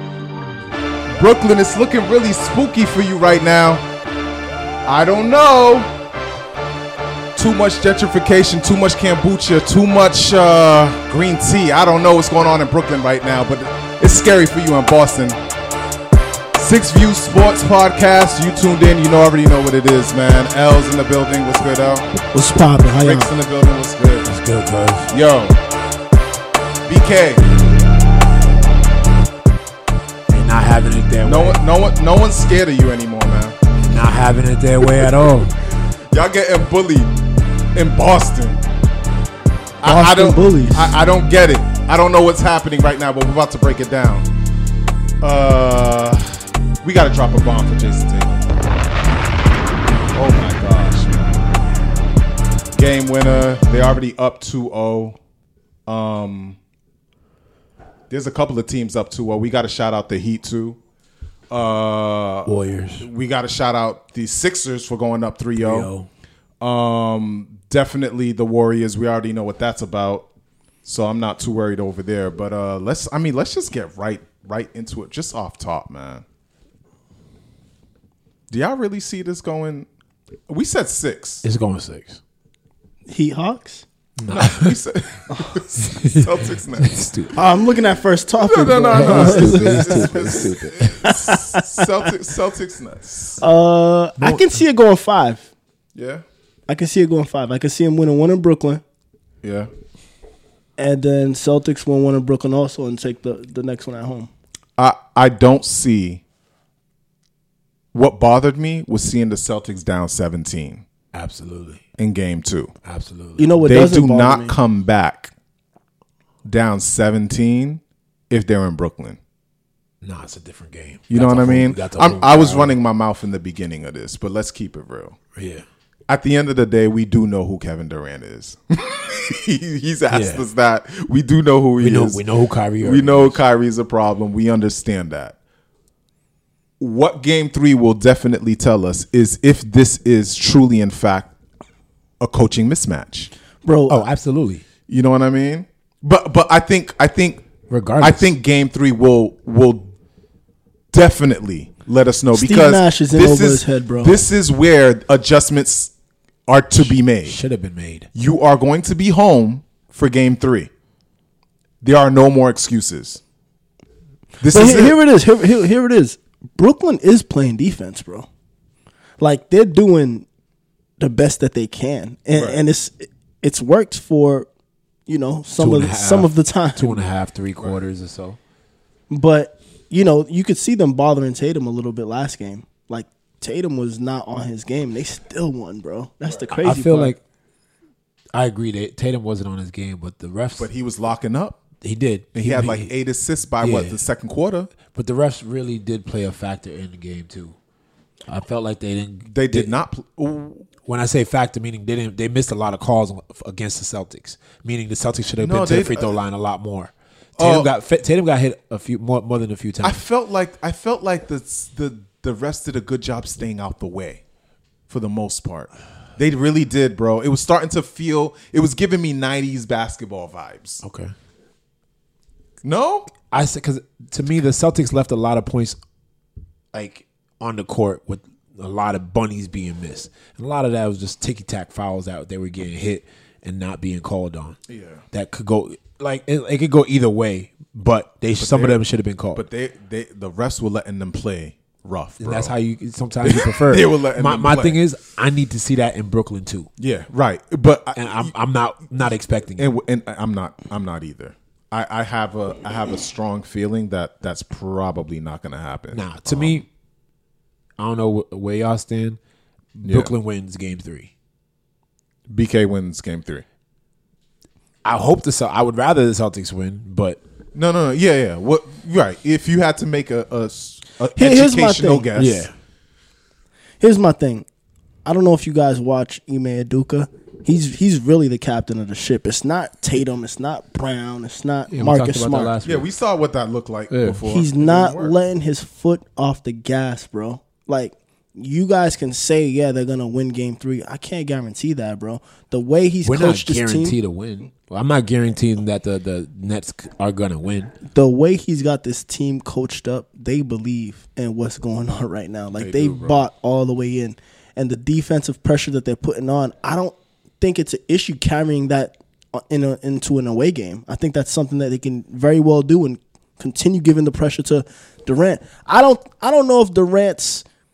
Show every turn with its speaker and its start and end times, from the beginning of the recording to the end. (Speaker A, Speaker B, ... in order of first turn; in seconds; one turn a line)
Speaker A: 1.1-3.8
Speaker A: 4.8-5.9
Speaker A: 7.3-15.4
Speaker A: 16.5-22.1
Speaker B: 22.3-23.3
Speaker A: 23.0-24.4
Speaker C: 24.2-25.1
Speaker A: 25.1-25.6
Speaker A: 26.9-27.4
Speaker C: 30.3-31.6
Speaker A: 31.2-33.6
Speaker C: 33.8-35.5
Speaker A: 36.1-37.2
Speaker A: 37.7-38.6
Speaker A: 39.8-44.3
Speaker B: 39.8-40.9
Speaker A: 45.2-48.7
Speaker A: 50.1-51.4
Speaker A: 52.7-55.2
Speaker A: 55.9-56.6
Speaker A: 58.1-60.8
Speaker A: 61.5-65.9
Speaker C: 62.5-63.1
Speaker C: 65.6-66.1
Speaker A: 66.6-70.3
Speaker A: 70.8-76.2
Speaker A: 78.5-79.9
Speaker A: 80.5-81.4
Speaker C: 81.4-82.2
Speaker B: 83.1-83.8
Speaker C: 84.2-84.8
Speaker A: 84.3-87.0
Speaker C: 85.9-87.3
Speaker B: 87.3-92.0
Speaker A: 88.4-93.4
Speaker C: 88.9-91.2
Speaker B: 93.4-95.5
Speaker A: 95.9-96.2
Speaker B: 96.7-98.8
Speaker A: 99.4-99.7
Speaker B: 100.8-104.3
Speaker A: 104.8-106.2
Speaker A: 107.9-110.8
Speaker C: 111.1-111.8
Speaker A: 112.0-112.7
Speaker C: 112.8-113.5
Speaker B: 113.4-114.5
Speaker A: 113.6-115.3
Speaker A: 116.4-119.2
Speaker C: 120.0-122.7
Speaker A: 121.1-125.2
Speaker C: 125.3-125.6
Speaker A: 126.1-132.2
Speaker C: 130.1-130.4
Speaker C: 131.8-133.4
Speaker A: 132.8-135.3
Speaker A: 136.8-141.3
Speaker A: 142.2-143.3
Speaker B: 143.6-144.0
Speaker C: 143.9-144.6
Speaker A: 144.9-147.4
Speaker C: 147.7-148.3
Speaker A: 148.0-149.9
Speaker A: 150.9-155.9
Speaker B: 152.3-154.2
Speaker A: 156.5-157.4
Speaker C: 156.8-158.1
Speaker A: 158.1-160.7
Speaker A: 161.8-163.2
Speaker A: 164.4-165.0
Speaker B: 164.4-168.3
Speaker B: 169.2-170.2
Speaker B: 171.0-174.5
Speaker A: 172.3-172.6
Speaker B: 175.1-177.0
Speaker C: 175.6-178.4
Speaker B: 179.1-187.1
Speaker C: 186.6-187.2
Speaker C: 188.3-190.7
Speaker A: 190.6-191.6
Speaker C: 191.8-192.9
Speaker A: 192.3-194.7
Speaker C: 193.6-194.0
Speaker C: 194.9-197.6
Speaker C: 198.3-199.7
Speaker A: 199.3-200.7
Speaker C: 200.8-210.0
Speaker A: 205.4-206.2
Speaker A: 207.4-207.7
Speaker A: 209.8-214.2
Speaker A: 214.9-220.8
Speaker C: 220.8-221.1
Speaker A: 222.6-223.1
Speaker C: 223.3-225.8
Speaker C: 226.7-234.6
Speaker A: 234.7-235.0
Speaker C: 235.1-239.4
Speaker A: 238.4-238.8
Speaker A: 239.3-242.5
Speaker C: 242.2-246.7
Speaker A: 243.2-244.8
Speaker A: 246.8-248.3
Speaker C: 247.9-249.7
Speaker A: 249.6-256.6
Speaker C: 255.9-256.7
Speaker C: 257.8-259.2
Speaker C: 259.8-261.1
Speaker A: 259.8-260.1
Speaker A: 262.3-263.4
Speaker C: 264.8-267.2
Speaker A: 267.5-272.5
Speaker B: 271.1-272.1
Speaker C: 272.1-272.5
Speaker B: 273.8-274.5
Speaker B: 275.0-282.5
Speaker C: 281.7-282.8
Speaker A: 282.6-285.1
Speaker C: 283.9-284.2
Speaker B: 284.2-293.9
Speaker C: 293.0-297.7
Speaker B: 297.9-317.4
Speaker A: 302.5-303.2